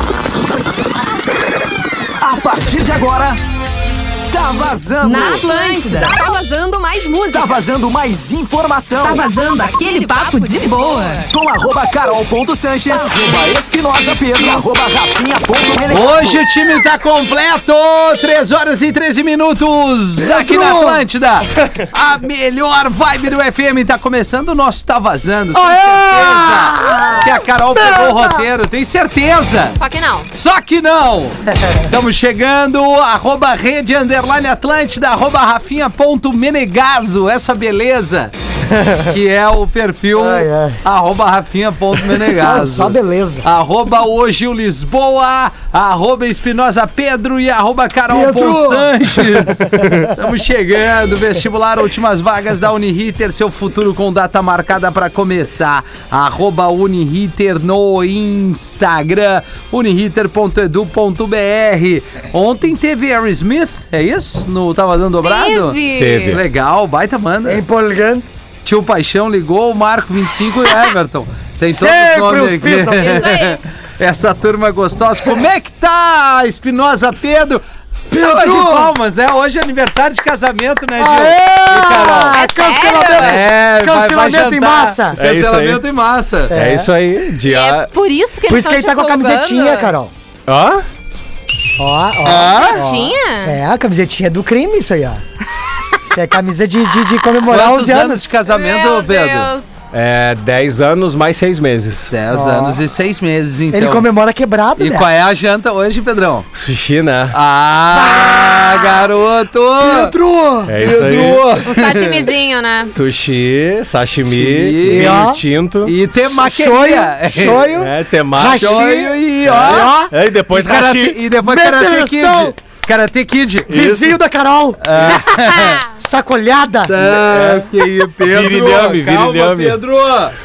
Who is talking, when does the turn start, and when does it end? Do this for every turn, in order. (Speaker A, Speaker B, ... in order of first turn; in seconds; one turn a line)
Speaker A: 2.2-3.4
Speaker A: 4.3-5.7
Speaker B: 5.0-7.6
Speaker A: 7.3-9.2
Speaker B: 9.0-11.3
Speaker A: 11.3-16.4
Speaker C: 15.9-29.8
Speaker D: 20.2-21.0
Speaker D: 25.5-28.4
Speaker B: 29.8-30.3
Speaker C: 30.3-38.3
Speaker C: 39.0-67.6
Speaker D: 40.1-40.8
Speaker D: 42.0-43.5
Speaker D: 48.1-50.1
Speaker E: 49.8-50.1
Speaker B: 65.2-66.4
Speaker E: 66.0-66.4
Speaker D: 67.5-68.2
Speaker C: 68.6-82.4
Speaker D: 71.7-73.3
Speaker B: 73.0-73.6
Speaker D: 78.1-78.9
Speaker D: 81.0-85.2
Speaker B: 82.3-83.4
Speaker C: 83.2-86.5
Speaker E: 85.2-85.8
Speaker D: 86.5-86.9
Speaker E: 86.5-87.9
Speaker B: 87.4-89.9
Speaker D: 88.5-90.1
Speaker E: 90.5-90.8
Speaker D: 91.8-95.2
Speaker C: 92.2-92.8
Speaker B: 92.5-93.6
Speaker D: 96.0-98.4
Speaker C: 97.5-99.5
Speaker B: 98.5-99.7
Speaker E: 99.9-102.1
Speaker C: 102.1-104.1
Speaker D: 102.3-102.8
Speaker D: 103.7-105.1
Speaker C: 104.8-106.5
Speaker E: 106.5-107.4
Speaker C: 107.3-110.1
Speaker D: 108.0-108.5
Speaker D: 109.8-110.7
Speaker E: 110.7-111.5
Speaker C: 110.8-112.3
Speaker B: 111.7-112.9
Speaker E: 112.9-116.0
Speaker C: 114.3-115.3
Speaker D: 114.8-115.4
Speaker C: 115.8-117.7
Speaker D: 116.1-120.1
Speaker E: 117.6-118.9
Speaker C: 118.5-123.8
Speaker E: 119.4-121.2
Speaker D: 121.4-122.5
Speaker E: 123.7-124.2
Speaker D: 123.7-124.8
Speaker C: 124.8-125.8
Speaker E: 125.0-125.2
Speaker D: 126.0-127.0
Speaker C: 126.8-130.3
Speaker E: 127.0-129.8